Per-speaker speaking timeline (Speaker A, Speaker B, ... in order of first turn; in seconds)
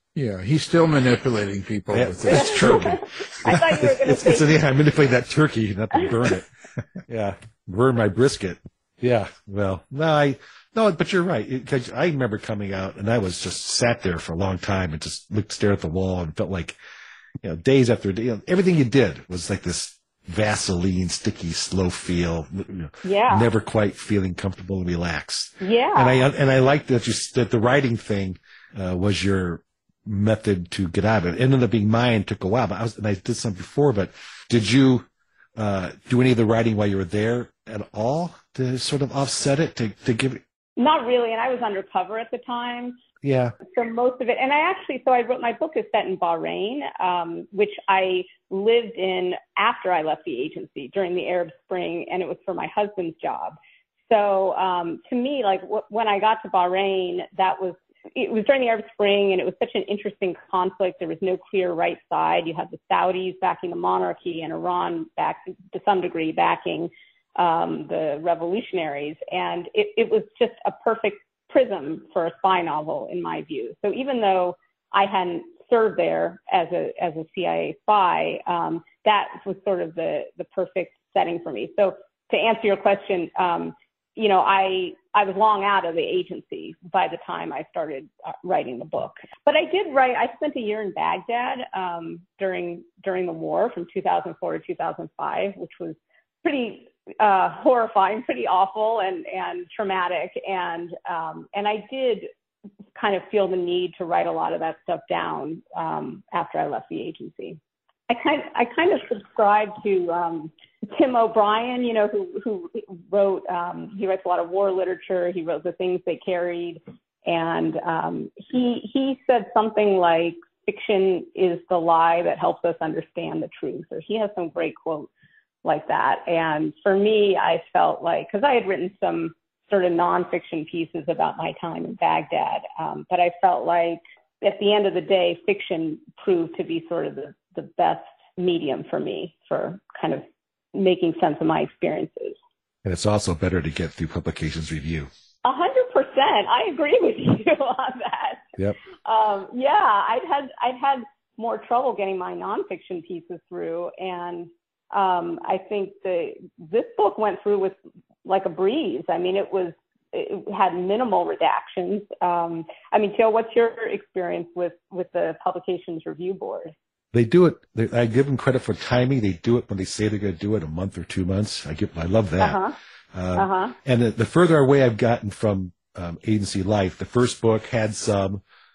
Speaker A: 0.2-3.7
Speaker B: 1.9-6.5, 7.1-16.8, 17.4-40.4, 43.2-43.5, 142.8-145.1, 167.1-172.6, 173.1-178.4
Speaker C: 2.3-4.5, 23.0-23.5, 25.6-26.3, 40.8-43.0, 43.7-53.6, 54.1-102.3, 103.0-125.1, 125.6-142.4, 145.4-148.4, 149.1-166.7, 172.4-172.8, 173.4-173.8